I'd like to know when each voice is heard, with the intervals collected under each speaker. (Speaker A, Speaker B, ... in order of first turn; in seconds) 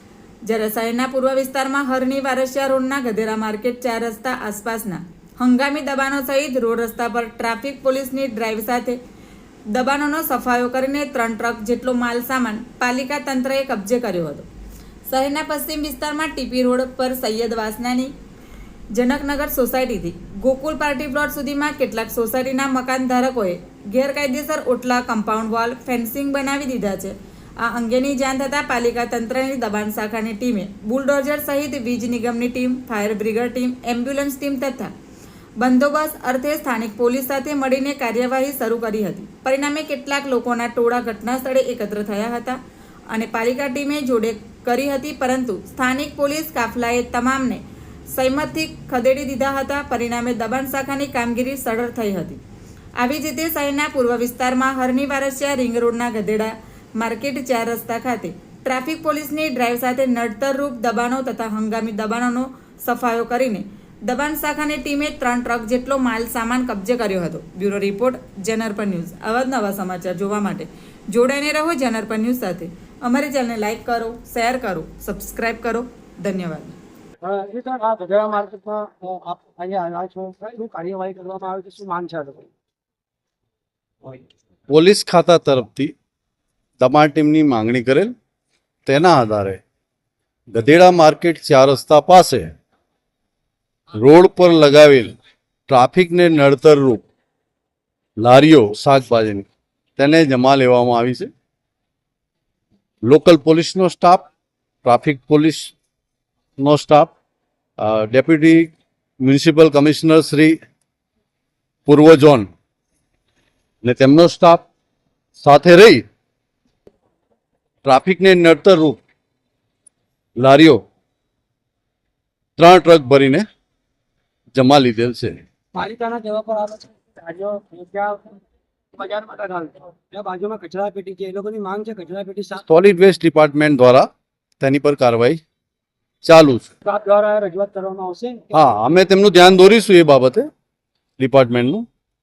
Speaker A: 0.4-9.0, 9.7-14.4, 15.1-18.1, 18.9-34.9, 35.6-42.6, 43.1-52.4, 53.0-76.8
Speaker B: 77.2-82.5, 125.7-128.4, 129.0-132.6, 136.8-138.4
Speaker C: 84.7-85.9, 86.8-88.1, 88.8-89.6, 90.5-92.5, 93.9-95.2, 95.7-97.0, 98.2-101.3, 103.0-104.3, 104.8-105.7, 106.6-107.1, 107.8-110.6, 111.8-112.5, 113.8-114.7, 115.4-116.0, 117.8-119.0, 120.4-120.8, 122.6-123.4, 124.5-125.4, 132.7-134.1, 134.6-135.4, 136.2-136.7, 138.5-140.5, 141.2-141.8